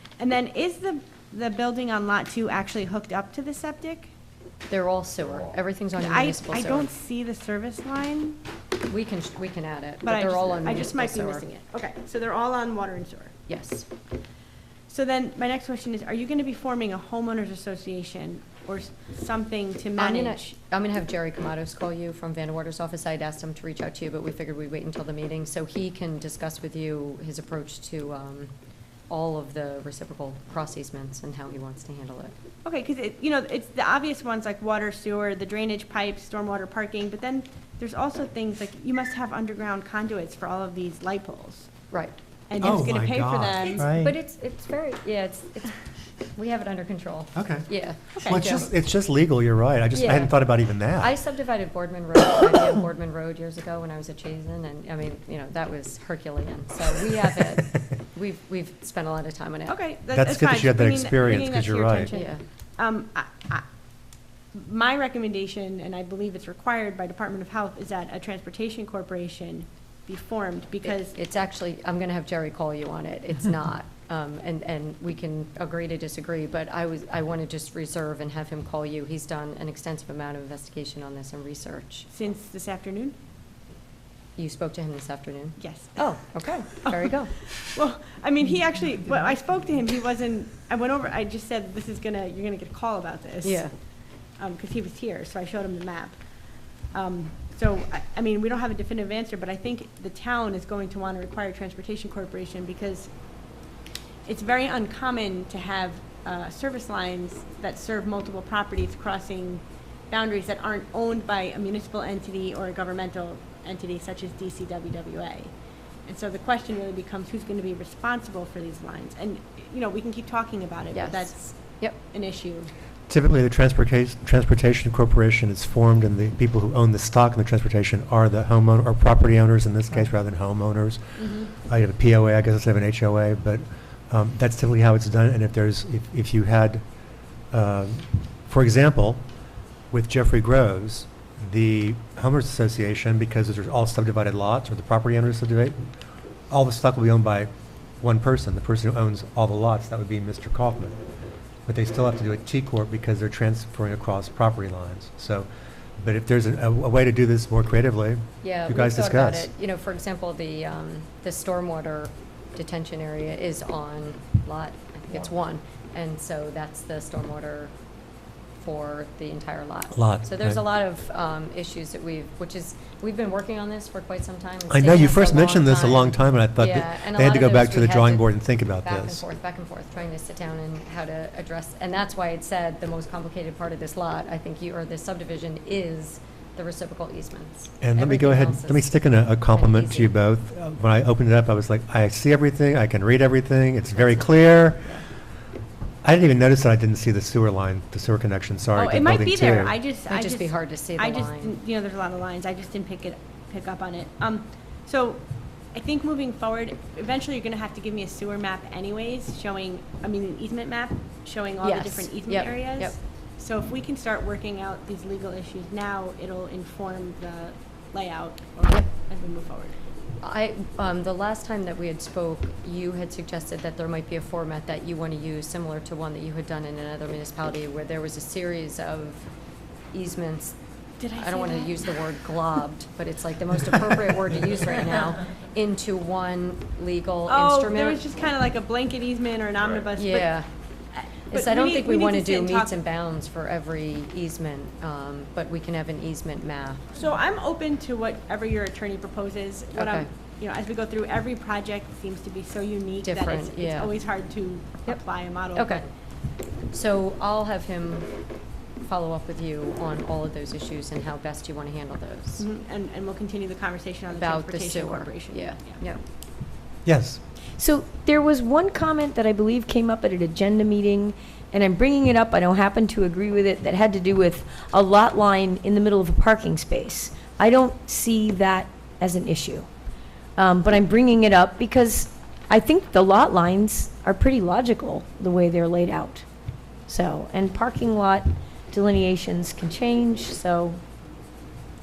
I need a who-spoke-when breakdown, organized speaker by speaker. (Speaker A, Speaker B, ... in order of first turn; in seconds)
Speaker A: 0.2-4.1, 6.0-8.4, 10.0-13.3, 14.9-20.5, 32.6-41.7, 42.5-43.9, 48.2-48.4, 59.7-63.7, 64.5-71.2, 82.1-83.2, 85.6-86.1, 86.8-93.7, 94.4-96.2, 96.9-103.1, 104.3-115.5, 116.1-121.5, 122.1-122.7, 131.2-131.4, 198.8-205.2, 205.7-219.8, 231.0-232.0, 237.3-240.4, 240.9-242.8, 246.9-255.9, 262.4-265.8
Speaker B: 4.7-6.9, 8.9-11.4, 13.5-13.9, 20.0-28.5, 29.1-32.4, 43.6-48.7, 49.9-59.8, 62.1-62.4, 70.8-82.1, 84.4-87.3, 93.4-93.7, 120.9-122.0, 158.4-167.7, 168.6-190.2, 200.1-201.6, 211.6-213.0, 220.2-229.3, 229.9-230.6, 231.2-238.0, 240.0-240.5, 241.3-246.9, 249.8-250.1, 253.0-254.0, 255.5-255.9, 256.7-258.1, 258.8-262.5, 264.1-266.0
Speaker C: 42.6-44.1, 47.4-47.7, 48.3-51.1, 60.1-62.1, 123.1-136.8, 137.5-139.2, 139.9-145.9, 146.5-147.5, 148.0-151.0, 151.7-155.5, 156.0-159.5, 169.9-170.6, 174.7-179.2, 187.8-194.9, 196.0-199.8, 266.9-267.2
Speaker D: 267.6-279.7, 280.4-286.3, 286.9-290.8